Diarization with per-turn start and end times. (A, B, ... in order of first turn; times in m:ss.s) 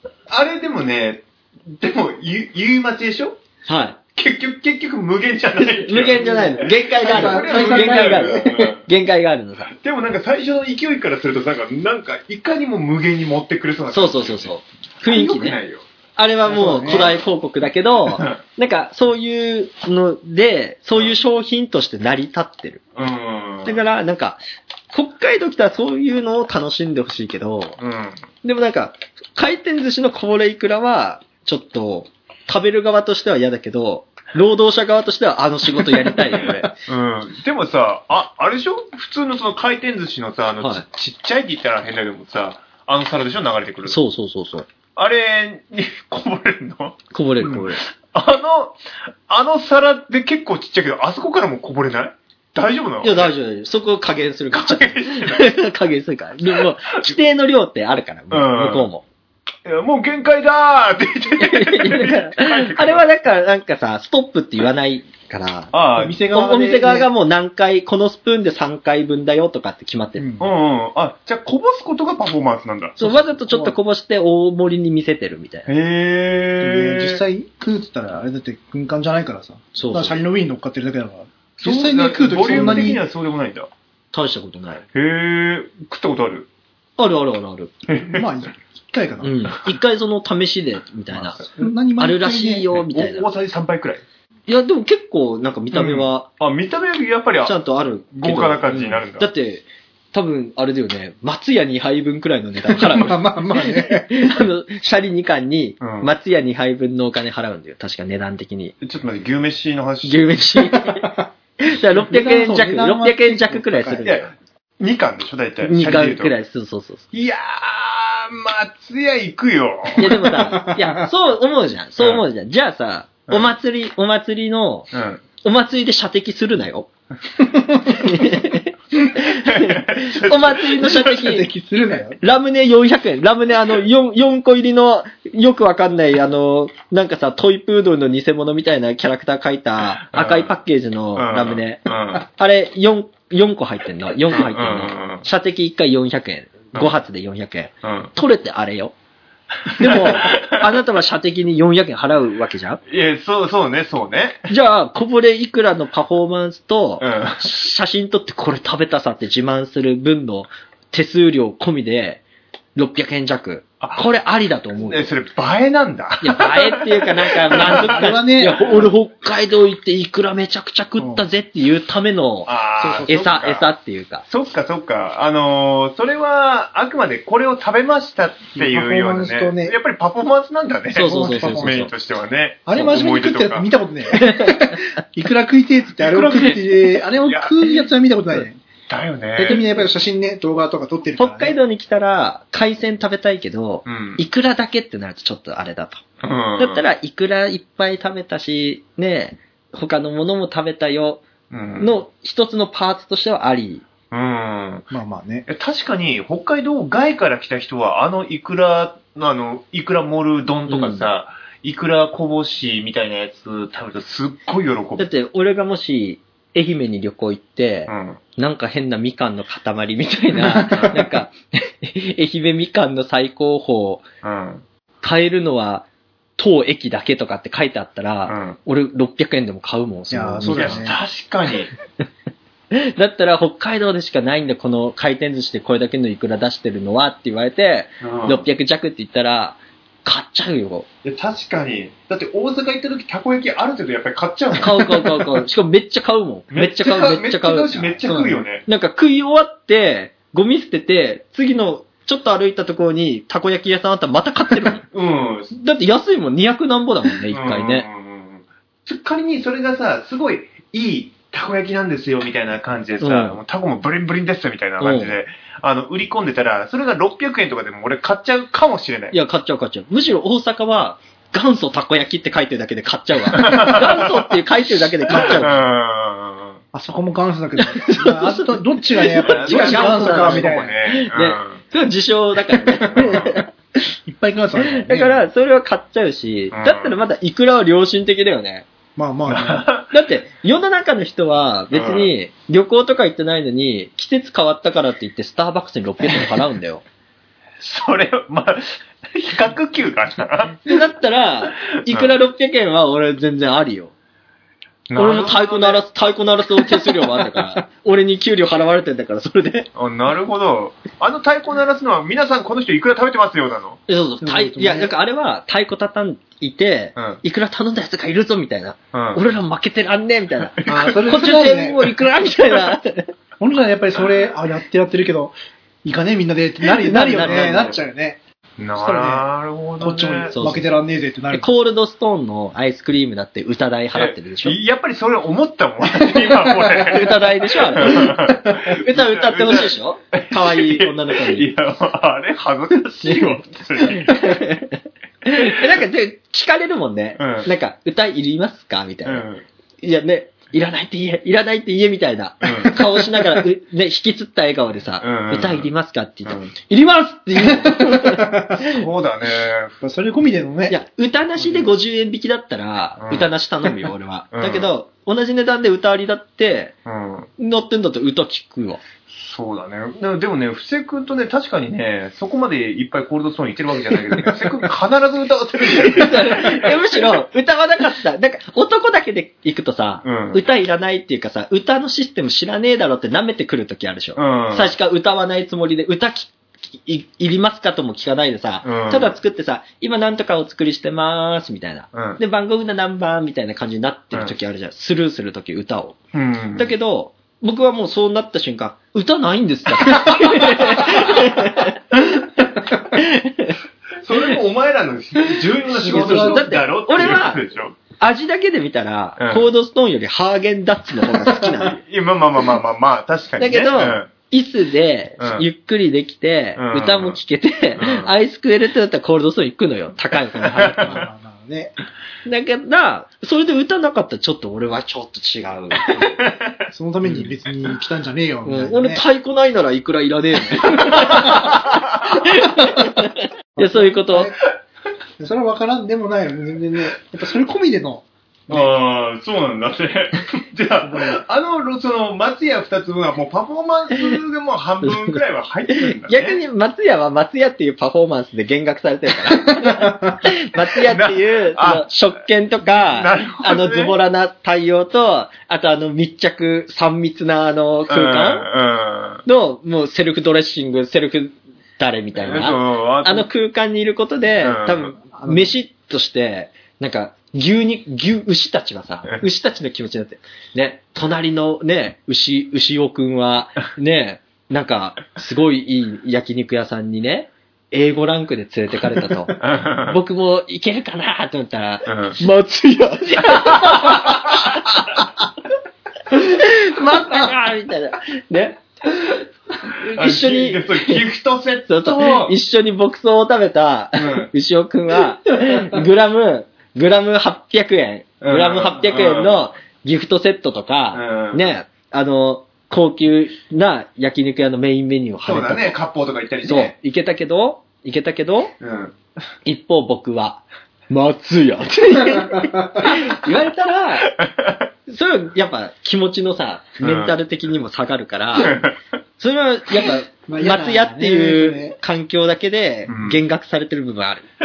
0:00.3-0:03.4 A
0:03.7-0:04.0 B
0:04.2-0:08.9 A
0:05.6-0:09.7 B
0:06.2-0:08.5 C
0:09.7-0:15.8 A
0:13.9-0:15.6 B
0:16.2-0:22.8 B
0:16.4-0:17.2 C
0:18.1-0:18.4 A
0:23.0-0:23.8 A
0:23.6-0:24.4 B
0:24.9-0:27.8 B
0:27.8-0:28.2 A
0:28.4-0:36.7 B
0:36.9-0:44.0 A
0:43.9-0:44.7 B
0:45.0-0:48.8 A
0:47.1-0:47.8 B
0:49.3-0:53.3 A
0:53.0-0:59.0 B
0:54.5-0:55.6 A
0:58.3-0:58.9 A
0:59.6-1:03.0 A
1:01.4-1:05.7 B
1:05.7-1:06.2 A
1:06.0-1:07.1 C
1:06.3-1:10.3 B
1:10.2-1:10.5 C
1:10.4-1:13.0 A
1:13.0-1:15.7 B
1:13.0-1:13.8 C
1:15.7-1:17.2 A
1:16.6-1:23.0 C
1:19.8-1:20.2 B
1:21.6-1:23.7 A
1:22.5-1:23.0 B
1:24.1-1:24.8 B
1:24.9-1:26.5 A
1:27.0-1:27.7 B
1:27.9-1:28.3 A
1:28.0-1:29.5 C
1:29.2-1:33.3 B
1:31.2-1:32.7 C
1:32.7-1:34.0 A
1:34.5-1:36.3 B
1:35.7-1:37.5 A
1:37.4-1:48.8 B
1:38.1-1:39.3 A
1:42.6-1:44.3 C
1:45.8-1:46.1 A
1:48.8-1:50.4 A
1:50.0-1:54.3 B
1:50.7-1:51.3 C
1:51.9-1:54.1 C
1:54.0-1:56.3 A
1:55.6-1:57.1 B
1:57.1-2:00.2 A
2:00.0-2:04.9 B
2:00.1-2:01.1 C
2:02.0-2:02.2 A
2:04.9-2:05.2 A
2:05.4-2:06.9 B
2:07.4-2:08.4 C
2:07.9-2:11.5 B
2:09.2-2:11.1 A
2:10.8-2:12.2 C
2:12.2-2:28.9 B
2:20.1-2:20.5 A
2:21.2-2:22.2 A
2:24.3-2:25.3 A
2:27.8-2:28.1 A
2:29.7-2:30.6 A
2:29.8-2:32.8 B
2:32.9-2:34.5 A
2:34.5-2:42.2 B
2:37.0-2:37.5 A
2:42.8-2:45.1 B
2:44.8-2:48.0 A
2:46.2-2:54.2 B
2:47.5-2:48.9 C
2:51.0-2:51.2 C
2:52.5-2:53.7 A
2:52.8-2:53.2 C
2:54.3-3:03.7 A
2:58.6-2:59.8 C
3:00.9-3:01.9 B
3:01.0-3:01.9 C
3:02.7-3:08.6 C
3:04.1-3:04.8 B
3:06.0-3:07.8 A
3:08.9-3:09.6 A
3:09.4-3:11.6 C
3:11.2-3:16.0 B
3:13.9-3:14.2 A
3:16.2-3:16.8 A
3:16.6-3:21.2 B
3:21.5-3:22.0 A
3:21.8-3:23.9 B
3:24.1-3:24.9 A
3:24.9-3:25.5 C
3:25.5-3:35.0 A
3:30.7-3:31.1 B
3:35.0-3:44.1 B
3:37.9-3:38.2 A
3:40.4-3:41.1 C
3:44.2-3:44.6 A
3:45.0-3:45.9 B
3:46.4-3:50.9 B
3:48.3-3:48.6 A
3:50.1-3:51.0 C
3:50.4-3:51.7 A
3:52.7-4:00.9 B
3:58.0-3:58.5 A
4:01.0-4:05.4 A
4:04.6-4:14.8 B
4:06.5-4:08.6 A
4:14.9-4:15.6 A
4:15.5-4:17.9 B
4:17.3-4:29.2 A
4:23.0-4:23.4 B
4:24.8-4:25.2 B
4:29.1-4:35.6 B
4:33.3-4:34.3 A
4:35.1-4:35.5 C
4:35.1-4:36.6 A
4:36.7-4:40.8 C
4:37.6-4:43.4 B
4:39.2-4:41.6 A
4:42.6-4:45.2 C
4:42.8-4:43.4 A
4:44.6-4:48.7 B
4:46.5-4:47.0 A
4:49.0-4:49.7 C
4:49.3-4:49.9 A
4:49.9-4:56.8 B
4:51.7-4:52.1 A
4:57.6-5:00.8 A
5:00.7-5:03.9 B
5:01.7-5:02.1 A
5:04.9-5:05.8 A
5:05.0-5:09.7 B
5:09.8-5:13.8 A
5:13.9-5:23.1 B
5:14.2-5:14.9 C
5:17.0-5:17.2 A
5:18.9-5:19.2 A
5:20.6-5:21.0 A
5:20.6-5:22.0 C
5:23.4-5:28.2 C
5:26.6-5:27.8 B
5:27.1-5:27.8 A
5:28.6-5:30.4 A
5:28.8-5:29.2 C
5:29.8-5:31.5 C
5:30.3-5:30.7 B
5:31.3-5:34.6 B
5:33.9-5:44.4 A
5:36.1-5:36.9 C
5:36.9-5:41.5 B
5:37.9-5:38.6 C
5:43.8-5:49.2 B
5:47.2-5:47.5 A
5:49.0-5:49.4 A
5:49.8-5:58.7 B
5:52.4-5:52.8 A
5:55.0-5:55.7 A
5:56.3-5:56.5 A
5:57.4-5:58.6 C
5:58.6-5:59.8 A
5:59.8-6:00.8 C
6:00.7-6:06.8 B
6:03.0-6:03.3 A
6:04.3-6:04.7 A
6:06.9-6:07.3 A
6:07.4-6:08.8 B
6:09.1-6:17.0 A
6:15.7-6:26.3 B
6:20.0-6:20.4 A
6:24.2-6:24.7 A
6:26.8-6:36.0 B
6:28.6-6:29.1 A
6:31.9-6:32.2 A
6:36.1-6:36.7 A
6:36.6-6:42.2 B
6:40.8-6:41.1 A
6:42.7-6:43.6 B
6:44.0-6:47.8 A
6:45.8-6:46.5 C
6:45.8-6:51.8 B
6:49.2-6:49.5 A
6:51.0-6:51.7 C
6:51.8-6:54.1 A
6:53.4-7:01.0 B
6:55.2-6:55.4 A
6:56.6-6:57.2 A
6:57.8-6:58.1 A
7:00.5-7:01.0 A
7:00.7-7:01.7 C
7:02.2-7:06.2 B
7:05.9-7:07.3 A
7:06.7-7:09.0 C
7:08.4-7:14.3 B
7:10.7-7:12.1 A
7:11.0-7:11.3 C
7:12.3-7:13.0 C
7:13.6-7:14.4 C
7:15.2-7:18.7 C
7:18.5-7:26.4 A
7:20.8-7:21.2 C
7:24.8-7:25.2 B
7:25.7-7:38.5 B
7:29.3-7:30.2 C
7:30.8-7:31.9 A
7:32.6-7:34.0 A
7:37.9-7:39.2 A
7:39.3-8:05.0 B
7:42.2-7:43.3 A
7:44.4-7:44.9 A
7:45.1-7:45.5 C
7:59.4-8:00.0 A
8:01.9-8:02.2 A
8:03.4-8:05.0 A
8:06.1-8:09.1 B
8:09.6-8:12.3 A
8:09.8-8:11.0 B
8:11.7-8:25.8 B
8:14.0-8:14.3 A
8:18.2-8:19.5 A
8:20.9-8:21.5 A
8:25.2-8:26.7 A
8:26.4-8:28.5 B
8:28.6-8:29.0 A
8:29.4-8:34.2 B
8:32.3-8:32.9 C
8:34.1-8:34.6 A
8:34.9-8:38.6 B
8:36.8-8:37.1 A
8:38.4-8:38.8 A
8:39.2-8:44.3 B
8:40.3-8:41.8 C
8:42.9-8:43.2 A